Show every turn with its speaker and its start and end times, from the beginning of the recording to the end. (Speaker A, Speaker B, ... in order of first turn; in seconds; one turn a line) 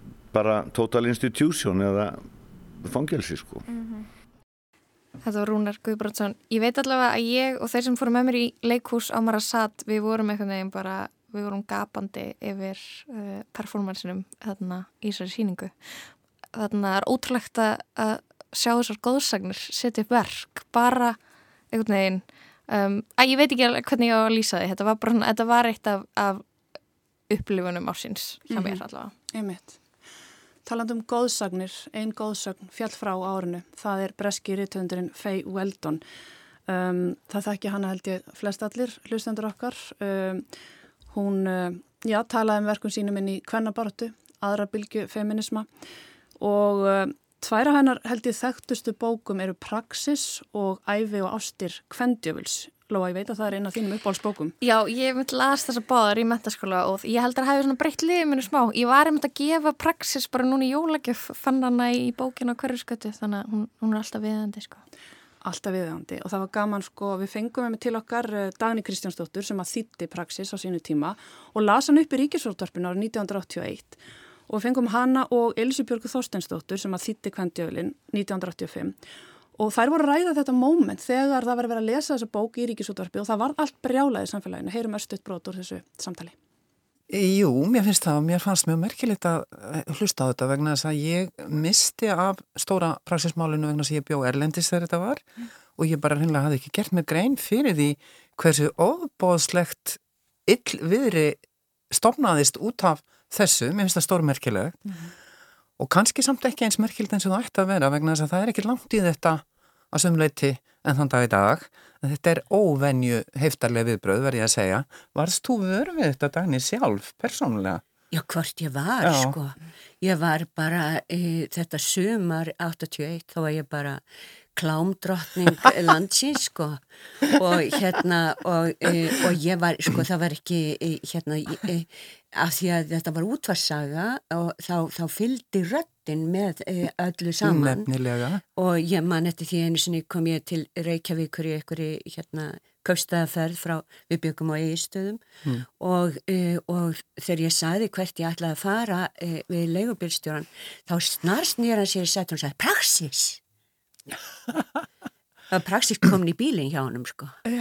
Speaker A: 0.3-3.6
Speaker B: 3.7-4.0
Speaker B: 5.2-21.2
Speaker B: 21.7-26.4
Speaker B: 27.3-29.1
Speaker C: 29.3-29.8
Speaker C: 30.6-36.0
Speaker C: 36.7-40.5
Speaker C: 41.1-45.7
Speaker C: 46.4-54.5
Speaker B: 54.6-64.8
Speaker C: 65.4-79.0
Speaker C: 79.5-86.3
Speaker D: 87.1-104.8
Speaker D: 105.8-117.8
Speaker E: 118.1-126.8
Speaker D: 119.0-119.4
Speaker E: 127.4-137.9
Speaker D: 137.4-138.4
Speaker E: 138.5-153.4
Speaker E: 155.5-157.4